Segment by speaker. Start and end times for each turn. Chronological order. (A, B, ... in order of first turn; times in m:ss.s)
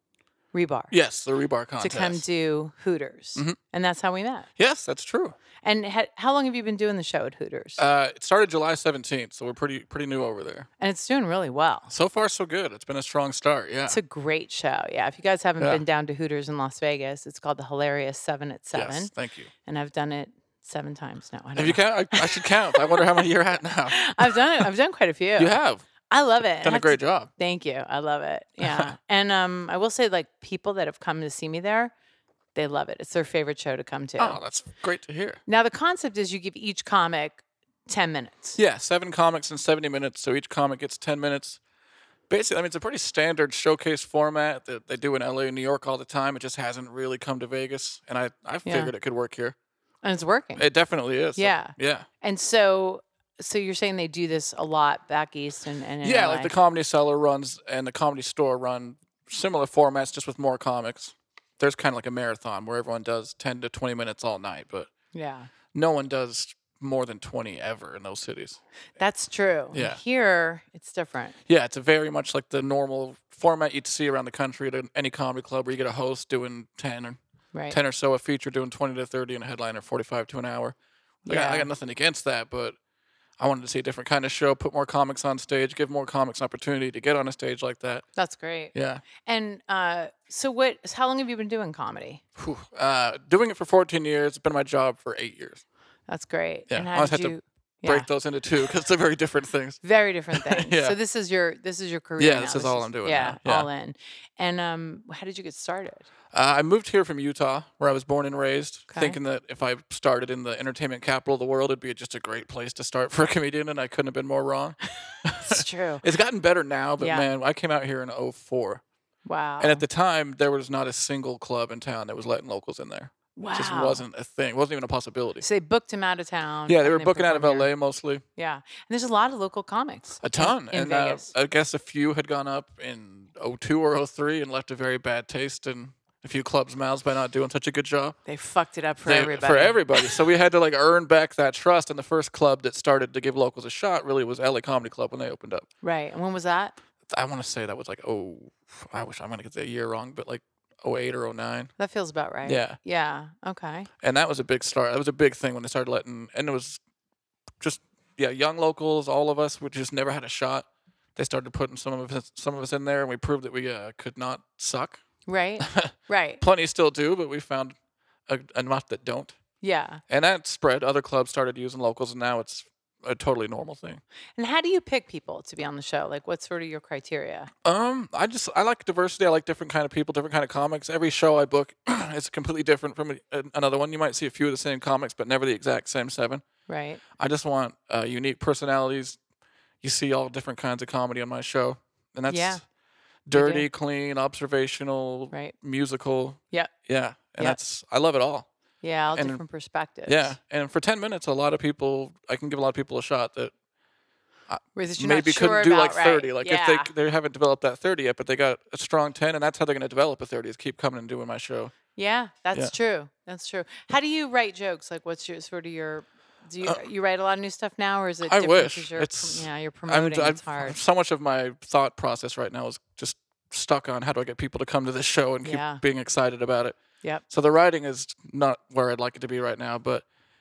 0:00.5-0:00.9 A
0:00.9-0:02.2 B
0:01.8-0:04.5 A
0:04.6-0:05.4 B
0:05.6-0:07.8 A
0:07.8-0:10.7 B
0:10.8-0:11.9 A
0:11.9-0:14.0 B
0:13.9-0:19.1 A
0:18.8-0:19.5 B
0:19.6-0:23.1 A
0:21.6-0:24.6 B
0:23.9-0:25.5 A
0:25.4-0:25.9 B
0:26.1-0:31.9 A
0:26.6-0:27.3 B
0:28.6-0:28.9 B
0:32.6-0:34.4 A
0:34.2-0:35.4 B
0:35.5-0:38.6 A
0:38.6-0:41.6 B
0:42.3-0:49.6 B
0:48.6-0:48.9 A
0:50.0-0:50.7 A
0:50.6-0:52.1 B
0:51.4-0:56.5 A
0:56.0-1:04.9 B
1:05.1-1:05.5 A
1:05.7-1:08.6 B
1:09.0-1:11.4 A
1:09.7-1:10.0 B
1:11.5-1:17.2 B
1:17.7-1:22.8 B
1:21.3-1:21.7 A
1:23.4-1:28.0 B
1:28.2-1:32.2 A
1:28.7-1:29.0 B
1:32.4-1:35.6 B
1:36.1-1:38.1 A
1:36.7-1:39.8 B
1:39.8-1:46.1 A
1:40.3-1:41.0 B
1:42.2-1:43.7 B
1:46.3-1:58.8 B
1:48.9-1:49.2 A
1:55.4-1:56.0 A
1:57.0-1:57.3 A
1:59.3-1:59.8 A
1:59.6-2:05.4 B
2:03.4-2:04.0 A
2:05.4-2:07.7 A
2:06.7-2:08.2 B
2:08.4-2:11.3 A
2:10.2-2:18.2 B
2:18.3-2:20.2 A
2:19.1-2:25.7 B
2:25.8-2:26.8 A
2:27.1-2:31.7 B
2:31.8-2:33.9 A
2:32.4-2:32.8 B
2:34.0-2:36.8 B
2:37.6-2:45.0 B
2:45.3-2:46.4 A
2:45.6-2:47.8 B
2:48.3-2:49.4 B
2:49.6-2:50.0 A
2:50.1-2:54.0 B
2:54.4-2:57.5 A
2:57.6-3:06.4 B
3:06.7-3:07.0 A
3:07.2-3:09.2 B
3:09.8-3:12.6 B
3:12.3-3:12.6 A
3:13.3-3:18.5 B
3:13.3-3:13.7 A
3:18.8-3:20.4 A
3:19.1-3:19.4 B
3:20.1-3:23.5 B
3:24.5-3:31.7 B
3:24.8-3:26.9 A
3:32.0-3:40.8 A
3:38.3-3:46.8 B
3:45.4-3:45.8 A
3:47.3-3:50.0 B